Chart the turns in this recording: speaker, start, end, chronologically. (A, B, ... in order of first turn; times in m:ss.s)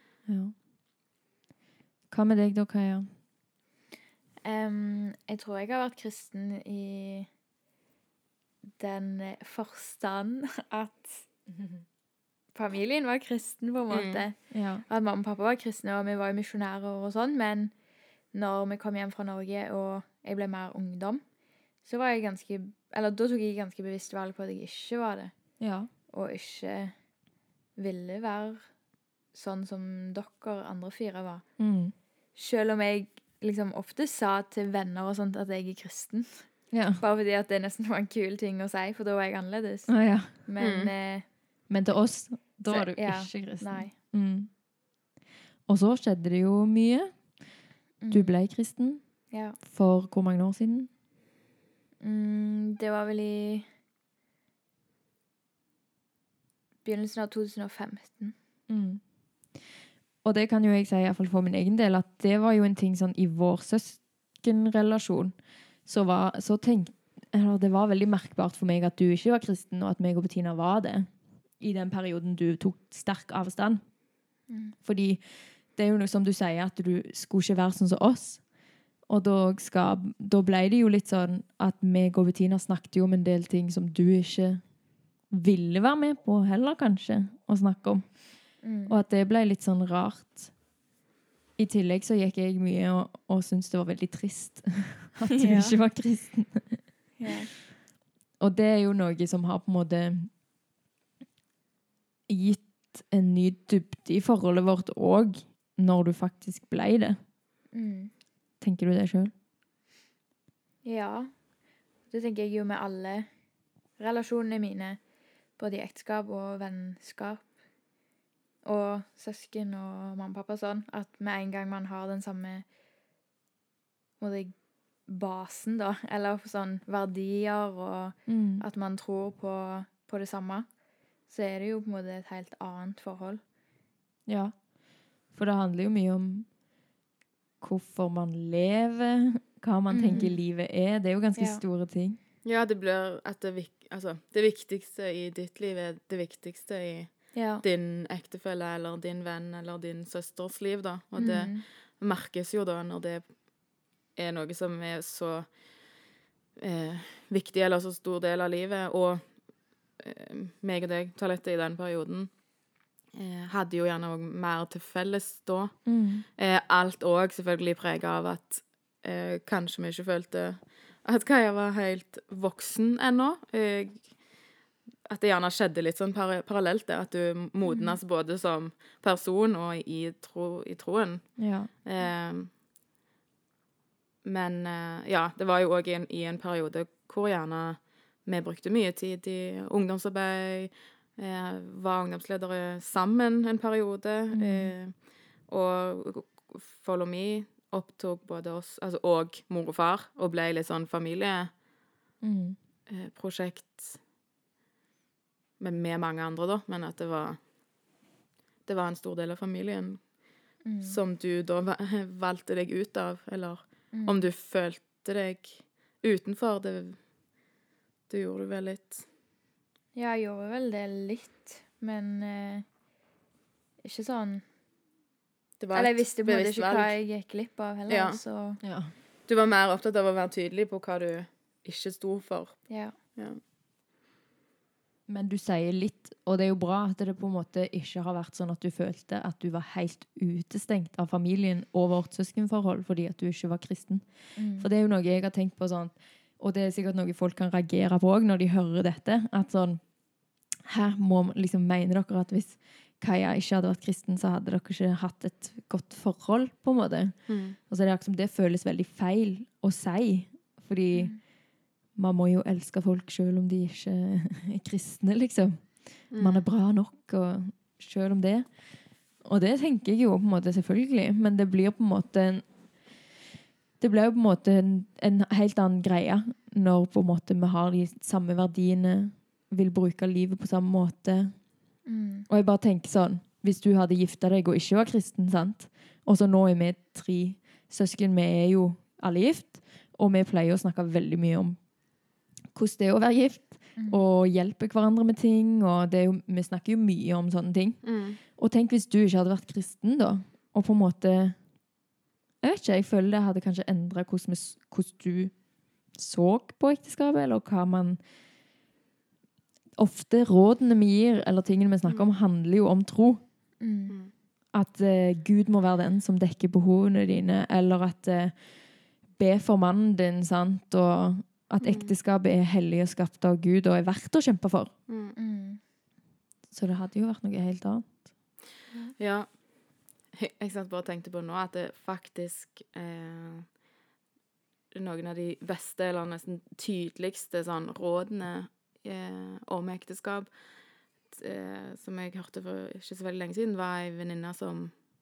0:00.3-0:00.5 A
0:02.1-0:03.1 A
0:04.4-0:07.3 B
0:08.8-0:11.3 B
0:12.5-0:17.7 B
0:13.9-0:14.2 C
0:14.5-0:14.8 A
0:18.3-0:21.2 B
0:21.8-0:27.0 B
0:25.6-0:25.9 A
0:27.8-0:28.7 B
0:29.3-0:31.6 B
0:31.6-0:31.9 A
0:32.3-0:41.2 B
0:36.7-0:37.0 A
0:39.9-0:40.3 A
0:40.6-0:40.9 C
0:41.7-0:44.5 A
0:42.7-0:43.9 B
0:45.7-0:47.4 A
0:48.0-0:48.4 B
0:48.1-0:50.9 A
0:49.3-0:49.6 B
0:52.0-0:53.7 B
0:56.8-0:58.3 B
0:58.7-0:59.0 A
1:00.2-1:13.8 A
1:14.5-1:14.8 B
1:14.8-1:18.4 A
1:19.1-1:24.7 A
1:25.3-1:30.6 A
1:28.6-1:29.0 B
1:31.6-1:37.3 A
1:35.4-1:35.8 B
1:37.2-1:37.5 B
1:38.4-1:40.3 A
1:42.3-1:47.2 A
1:47.7-1:48.1 B
1:48.6-1:49.3 A
1:50.8-1:51.4 B
1:52.1-1:53.3 B
1:54.0-1:55.0 B
1:55.6-1:57.5 B
1:58.6-2:02.6 B
2:04.2-2:04.5 B
2:05.0-2:10.7 B
2:08.3-2:08.6 A
2:11.3-2:13.4 B
2:14.3-2:14.7 A
2:15.3-2:16.5 A
2:17.6-2:22.2 A
2:19.9-2:20.4 B
2:21.4-2:21.6 B
2:22.4-2:33.4 C
2:27.3-2:27.6 B
2:31.2-2:31.6 B
2:34.1-2:35.6 C
2:36.6-2:39.4 C
2:40.0-2:42.4 C
2:43.1-2:54.3 C
2:45.8-2:46.2 A
2:55.0-3:02.5 C
2:57.6-2:58.0 B
3:01.4-3:01.7 A
3:04.2-3:21.5 C
3:14.3-3:14.7 A
3:22.2-3:22.6 A
3:22.9-3:24.0 C
3:25.6-3:27.4 C
3:28.6-3:30.1 C
3:30.6-3:31.0 B
3:30.8-3:37.0 C
3:33.9-3:34.3 B
3:38.1-3:39.0 C
3:39.9-3:42.6 B
3:43.8-3:44.4 B
3:45.6-3:47.0 C
3:45.7-3:48.6 B
3:47.9-3:48.2 C
3:48.6-3:48.9 A
3:49.3-3:53.4 C
3:52.7-3:53.0 B
3:55.1-4:10.0 A
4:04.4-4:04.7 B
4:10.6-4:21.3 A
4:17.3-4:17.6 C
4:20.9-4:21.2 B
4:21.9-4:32.4 A
4:26.1-4:26.4 C
4:33.8-4:41.4 A
4:41.8-4:42.3 B
4:42.3-4:51.7 A
4:52.5-5:01.4 A
4:53.8-4:54.0 B
4:57.8-4:58.2 C
5:02.4-5:05.4 A
5:05.9-5:08.0 A
5:09.8-5:13.2 A
5:13.6-5:14.0 B
5:14.5-5:24.7 A
5:21.6-5:21.9 C
5:24.9-5:25.1 C
5:25.2-5:25.6 B
5:26.5-5:28.1 A
5:29.0-5:33.5 C
5:34.7-5:40.4 C
5:41.1-5:44.8 C